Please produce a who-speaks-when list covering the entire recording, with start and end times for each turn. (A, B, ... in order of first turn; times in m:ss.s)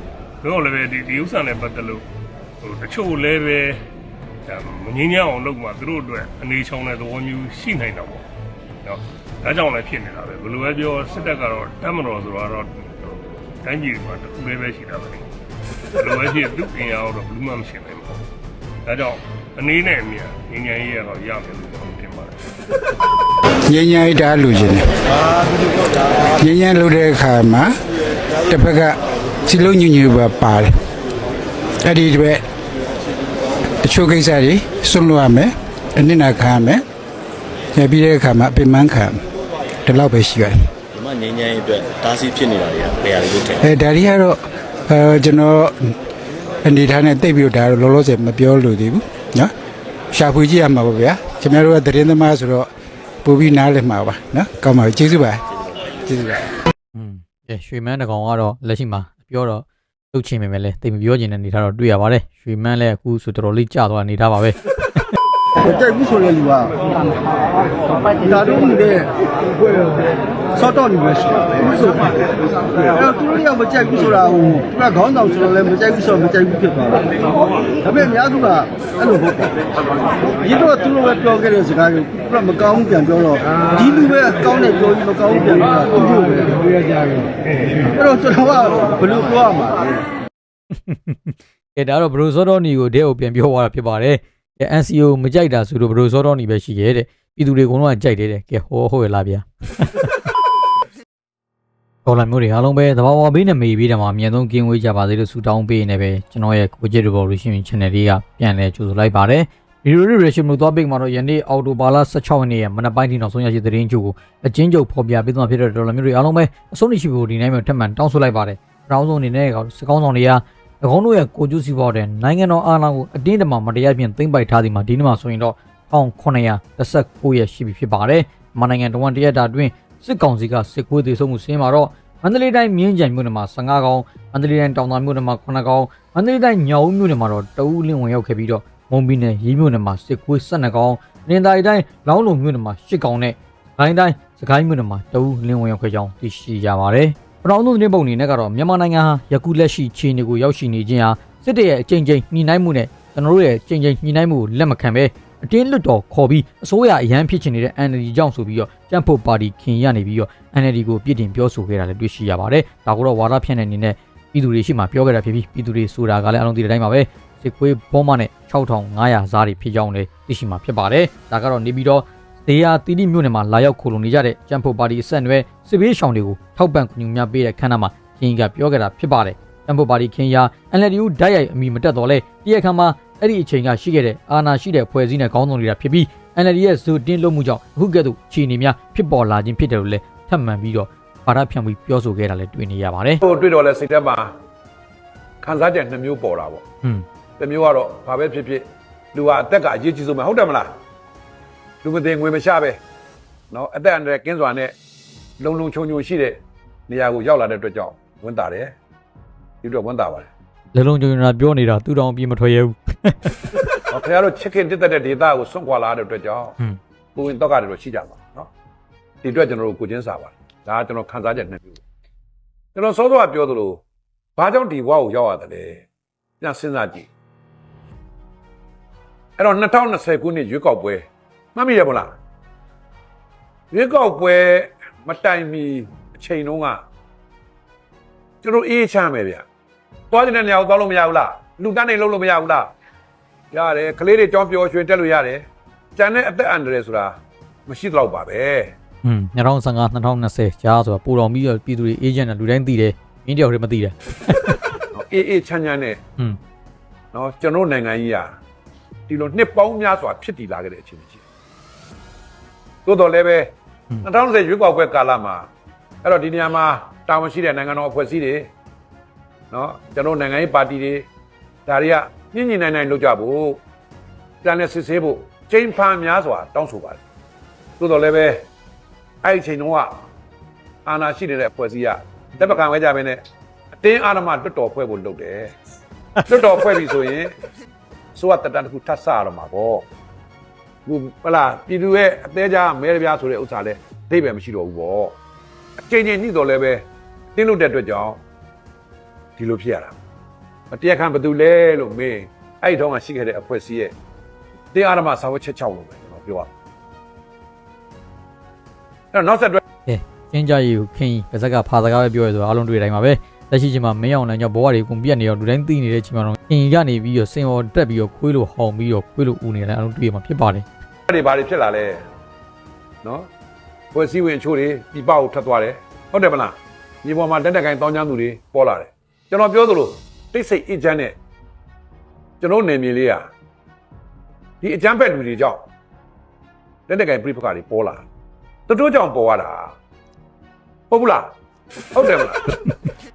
0:00.4-0:02.0 A
0:02.6-0:03.8 A
0:04.5-0:08.2 A
0:08.8-0:15.3 A
0:16.0-0:18.2 A
0:18.8-0:22.3 A
0:23.7-0:24.8 B
0:26.4-0:27.7 B
0:28.5-0:29.0 B
0:29.5-0:30.7 B
0:31.8-0:32.4 B
0:33.8-0:36.8 B
0:37.7-0:39.2 B
0:39.8-0:40.6 B
0:40.9-0:43.6 C
0:43.6-0:45.9 B
0:46.6-0:49.5 B
0:50.1-0:52.7 B
0:53.2-0:55.4 B
0:56.0-0:56.4 B
0:56.9-1:04.6 D
1:05.6-1:06.9 E
1:08.2-1:10.0 E
1:10.5-1:19.6 E
1:20.3-1:27.2 E
1:27.9-1:30.0 E
1:30.9-1:40.1 D
1:42.0-3:13.2 D
3:13.2-3:14.3 F
3:15.4-3:16.6 F
3:17.4-3:20.7 F
3:21.8-3:22.8 F
3:23.5-3:24.7 F
3:25.4-3:28.7 F
3:29.6-3:30.3 F
3:30.7-3:33.5 D
3:33.9-3:36.6 F
3:37.2-3:38.5 F
3:39.2-3:41.8 F
3:42.7-3:43.8 F
3:44.4-3:45.8 F
3:46.4-3:47.1 F
3:49.4-3:52.1 F
3:53.7-3:56.8 F
3:58.4-3:59.4 F
4:00.1-4:02.7 F
4:03.5-4:08.7 F
4:09.0-4:14.6 D
4:14.9-4:16.0 F
4:17.1-4:18.3 F
4:19.1-4:21.2 F
4:22.8-4:23.5 F
4:24.0-4:25.5 F
4:26.0-4:28.5 F
4:29.5-4:31.0 F
4:31.6-4:33.6 F
4:34.4-4:37.0 F
4:37.8-4:38.4 F
4:39.2-4:40.0 F
4:40.8-4:43.2 F
4:43.8-4:45.5 F
4:46.2-4:47.3 F
4:48.1-4:49.8 F
4:50.8-4:55.2 F
4:55.8-4:58.2 F
4:59.4-4:59.9 F
5:00.7-5:03.9 F
5:04.7-5:06.5 F
5:09.1-5:09.6 F
5:09.8-5:20.6 D
5:21.1-5:22.0 F
5:23.0-5:23.3 F
5:23.9-5:31.2 F
5:32.4-5:33.3 F
5:34.6-5:35.6 F
5:36.9-5:38.0 F
5:38.7-5:39.7 F
5:40.9-5:41.3 F
5:41.9-5:42.6 F